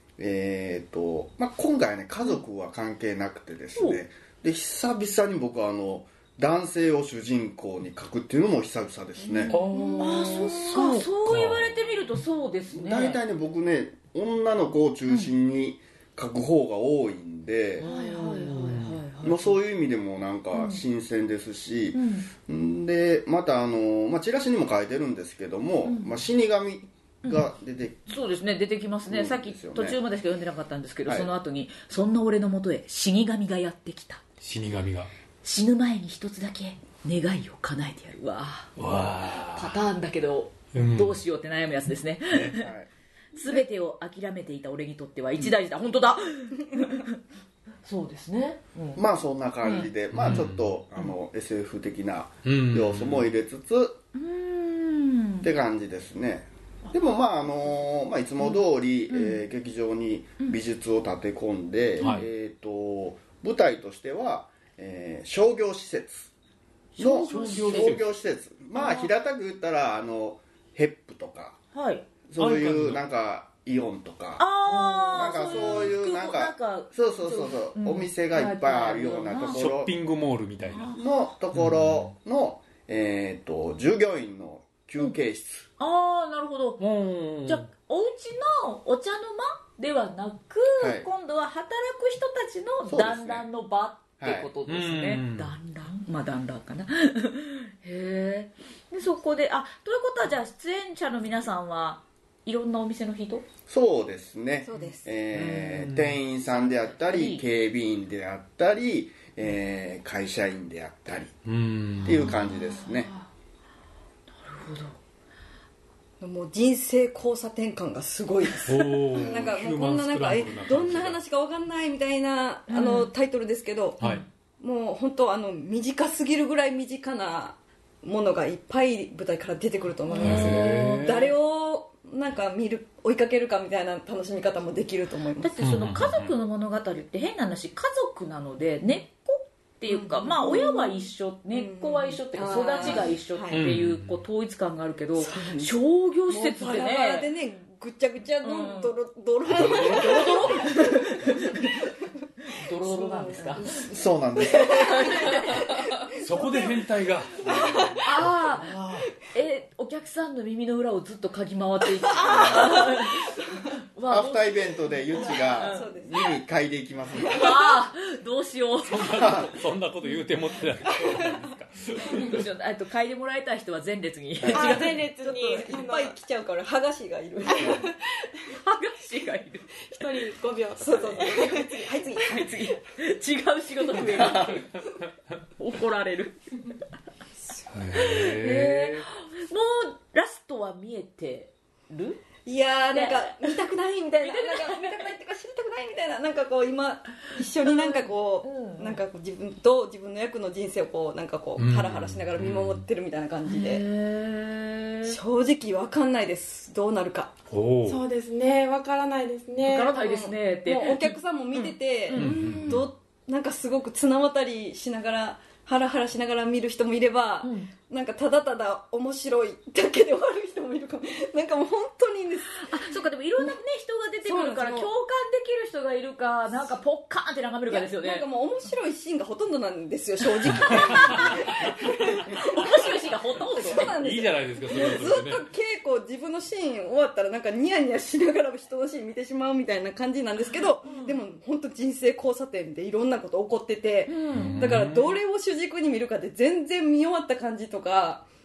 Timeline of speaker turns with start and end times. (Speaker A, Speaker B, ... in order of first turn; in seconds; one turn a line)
Speaker A: 0.2-9.6
Speaker B: 9.2-13.2
Speaker C: 9.5-10.6
Speaker D: 9.5-11.7
Speaker E: 9.8-10.6
Speaker A: 12.7-17.9
Speaker D: 17.8-19.0
Speaker B: 17.8-19.6
Speaker A: 19.2-28.1
Speaker B: 20.5-20.8
Speaker B: 21.9-22.3
Speaker B: 25.8-26.1
Speaker B: 27.2-27.5
Speaker B: 28.1-34.2
Speaker A: 29.1-30.0
Speaker D: 34.4-35.1
Speaker B: 35.4-38.7
Speaker D: 38.8-39.8
Speaker B: 39.5-42.7
Speaker D: 40.7-41.2
Speaker A: 42.3-42.9
Speaker B: 43.3-47.1
Speaker B: 47.8-49.0
Speaker A: 48.9-54.0
Speaker B: 49.6-49.9
Speaker D: 50.1-50.6
Speaker D: 52.4-53.3
Speaker B: 54.1-55.5
Speaker A: 55.4-66.3
Speaker B: 58.4-59.4
Speaker D: 62.0-62.2
Speaker A: 67.0-71.6
Speaker B: 67.0-67.9
Speaker D: 67.0-68.0
Speaker B: 68.7-69.1
Speaker B: 71.7-72.0
Speaker A: 72.3-74.4
Speaker D: 72.4-73.0
Speaker B: 74.4-79.6
Speaker D: 74.7-75.9
Speaker A: 75.1-79.9
Speaker D: 79.5-80.9
Speaker B: 80.7-81.0
Speaker A: 80.9-85.7
Speaker D: 81.5-82.1
Speaker B: 85.8-86.9
Speaker D: 86.8-87.6
Speaker B: 87.4-103.4
Speaker A: 90.8-91.1
Speaker A: 92.8-93.5
Speaker A: 94.2-94.5
Speaker D: 94.7-95.5
Speaker A: 103.7-111.3
Speaker C: 104.6-105.1
Speaker D: 105.3-106.2
Speaker B: 106.5-107.4
Speaker D: 111.4-112.3
Speaker A: 112.0-113.1
Speaker B: 112.0-113.3
Speaker B: 114.4-115.0
Speaker C: 116.2-124.0
Speaker D: 118.7-121.2
Speaker B: 122.7-123.1
Speaker B: 124.0-124.3
Speaker C: 124.6-135.5
Speaker B: 130.1-131.1
Speaker D: 130.2-131.3
Speaker B: 135.4-147.3
Speaker D: 135.6-136.3
Speaker C: 139.9-143.6
Speaker D: 143.5-144.2
Speaker C: 145.2-151.7
Speaker B: 148.4-148.9
Speaker D: 149.4-150.5
Speaker B: 149.6-151.7
Speaker B: 152.4-153.7
Speaker C: 152.8-153.9
Speaker A: 153.6-155.2
Speaker B: 154.6-155.8
Speaker C: 154.6-156.8
Speaker D: 156.1-159.1
Speaker A: 157.5-157.9
Speaker C: 157.5-158.0
Speaker B: 158.0-158.7
Speaker B: 159.3-163.4
Speaker C: 162.1-163.1
Speaker B: 163.9-165.9
Speaker A: 164.1-167.5
Speaker C: 165.1-166.3
Speaker B: 167.2-169.5
Speaker D: 168.8-172.4
Speaker A: 169.1-169.5
Speaker B: 172.1-175.0
Speaker A: 174.4-174.7
Speaker E: 174.5-176.1
Speaker C: 174.5-177.9
Speaker E: 177.5-178.3
Speaker B: 178.5-180.1
Speaker E: 179.9-182.0
Speaker C: 180.8-182.6
Speaker B: 182.2-184.8
Speaker B: 185.6-186.4
Speaker D: 187.7-189.0
Speaker B: 187.9-192.2
Speaker C: 192.4-203.9
Speaker B: 192.9-193.6
Speaker B: 194.2-195.1
Speaker B: 197.6-199.0
Speaker D: 201.6-202.8
Speaker B: 203.4-205.2
Speaker C: 205.0-207.3
Speaker D: 207.5-208.0
Speaker E: 207.8-210.0
Speaker B: 209.6-212.3
Speaker C: 210.0-222.8
Speaker D: 212.1-212.9
Speaker E: 212.1-212.8
Speaker B: 217.4-217.7
Speaker B: 222.5-228.2
Speaker C: 224.2-224.9
Speaker C: 227.7-248.2
Speaker B: 230.4-231.4
Speaker B: 232.2-233.9
Speaker D: 233.7-235.5
Speaker B: 240.8-241.2
Speaker B: 244.1-244.6
Speaker D: 244.3-245.2